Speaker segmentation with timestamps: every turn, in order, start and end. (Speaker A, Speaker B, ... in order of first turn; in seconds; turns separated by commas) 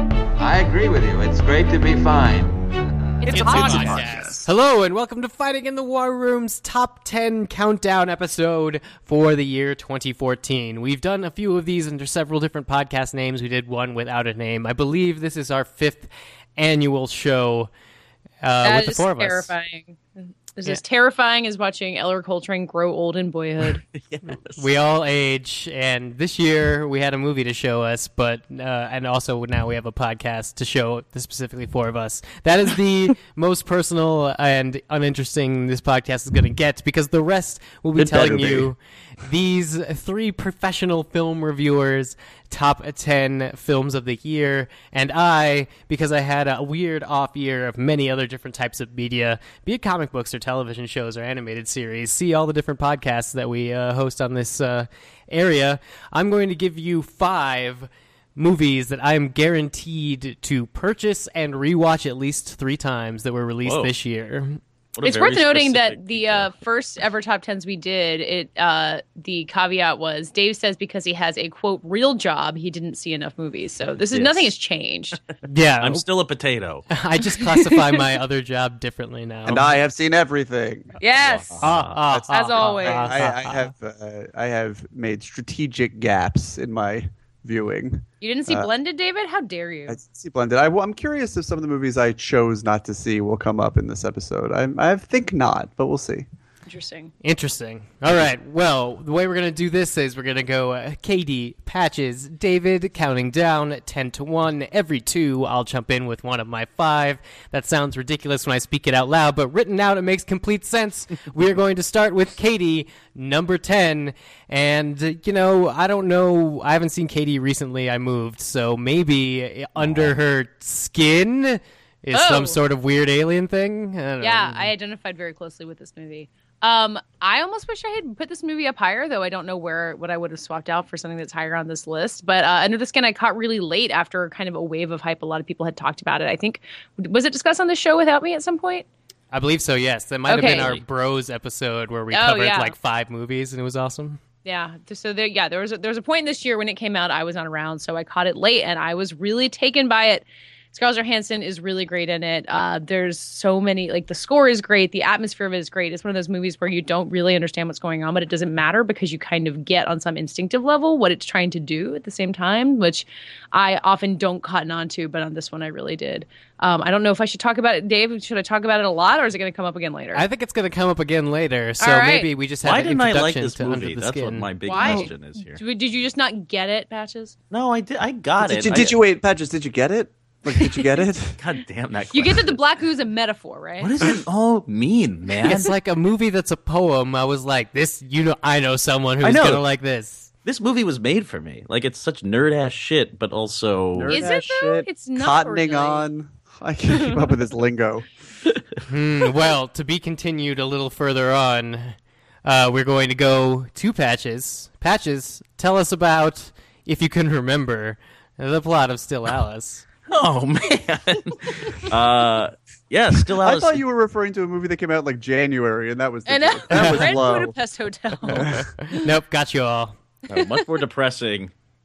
Speaker A: 0.4-2.6, Speaker B: 3.2-4.5, Speaker C: 3.3-17.7, Speaker D: 3.3-4.5, Speaker C: 18.4-19.5, Speaker B: 18.6-23.8, Speaker E: 24.0-24.6, Speaker C: 24.3-64.6, Speaker D: 38.0-38.7, Speaker E: 63.6-63.9, Speaker E: 65.0-66.5, Speaker B: 65.0-75.2, Speaker E: 74.1-74.5, Speaker C: 75.4-76.0, Speaker E: 75.8-76.9, Speaker C: 76.9-79.7, Speaker B: 77.4-78.0, Speaker D: 79.5-81.0, Speaker B: 81.0-81.7, Speaker E: 81.1-82.0, Speaker C: 81.6-83.7, Speaker D: 82.0-88.7, Speaker B: 82.3-83.2, Speaker B: 88.2-90.0, Speaker D: 89.9-96.3, Speaker B: 96.7-97.1, Speaker C: 97.2-124.7, Speaker E: 119.8-120.1, Speaker B: 122.1-122.6, Speaker B: 124.2-138.9, Speaker C: 139.3-144.2, Speaker B: 140.3-140.7, Speaker E: 140.6-140.8, Speaker B: 142.1-142.8, Speaker B: 144.4-170.2, Speaker C: 170.1-175.0, Speaker B: 171.8-172.3, Speaker E: 172.6-175.6, Speaker B: 174.7-177.3, Speaker E: 177.5-179.0, Speaker D: 178.4-181.4, Speaker E: 181.4-182.8, Speaker B: 182.1-184.2, Speaker E: 183.8-185.7, Speaker C: 185.4-190.3, Speaker E: 189.2-189.6, Speaker E: 190.4-194.2, Speaker D: 193.9-198.1, Speaker B: 194.1-196.1, Speaker C: 198.9-209.8, Speaker E: 210.1-213.8, Speaker B: 211.4-211.8, Speaker D: 213.4-217.6, Speaker B: 216.3-219.0, Speaker C: 216.7-217.1, Speaker D: 218.2-218.7, Speaker C: 218.9-220.0, Speaker E: 220.3-221.5, Speaker B: 220.3-220.6